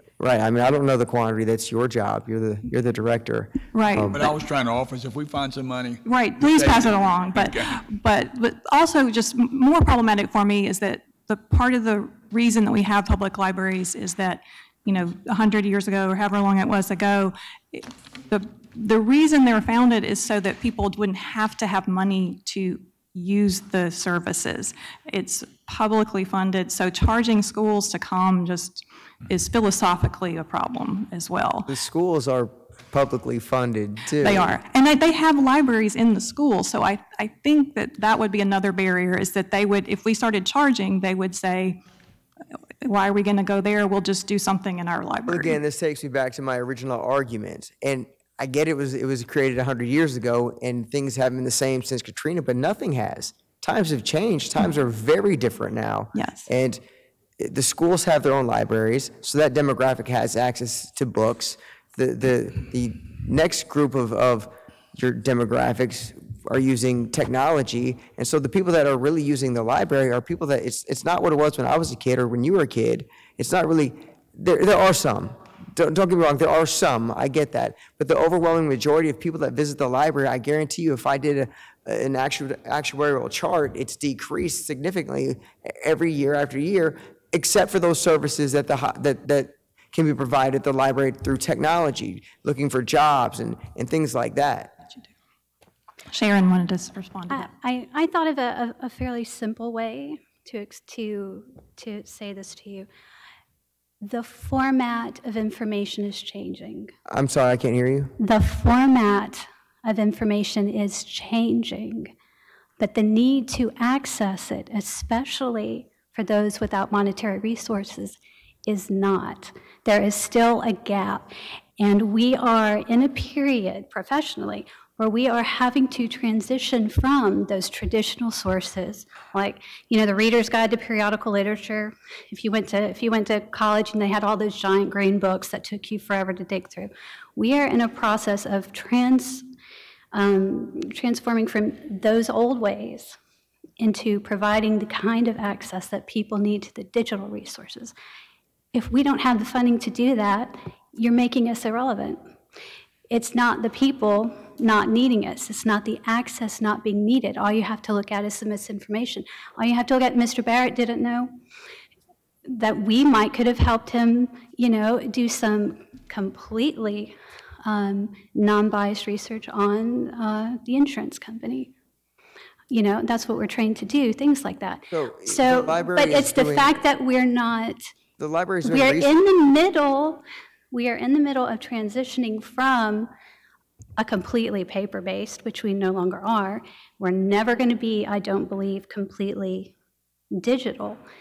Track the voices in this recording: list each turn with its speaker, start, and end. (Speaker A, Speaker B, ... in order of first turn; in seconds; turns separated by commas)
Speaker A: 0.2-4.4, Speaker B: 3.7-4.2, Speaker C: 4.1-7.8, Speaker B: 6.0-31.7, Speaker A: 31.7-34.5, Speaker B: 34.2-41.8, Speaker B: 42.8-45.6, Speaker A: 45.3-56.8, Speaker B: 56.1-56.5, Speaker A: 57.4-94.8, Speaker B: 96.1-97.5, Speaker D: 97.3-102.9, Speaker D: 104.0-106.9, Speaker A: 107.1-108.1, Speaker D: 108.2-112.1, Speaker D: 112.8-139.5, Speaker D: 140.1-143.2, Speaker D: 143.8-147.9, Speaker D: 148.7-152.2, Speaker D: 153.1-161.3, Speaker D: 162.5-171.7, Speaker D: 172.7-177.9, Speaker A: 174.9-176.7, Speaker A: 178.2-179.2, Speaker D: 178.6-183.1, Speaker D: 184.0-189.7, Speaker D: 190.4-191.0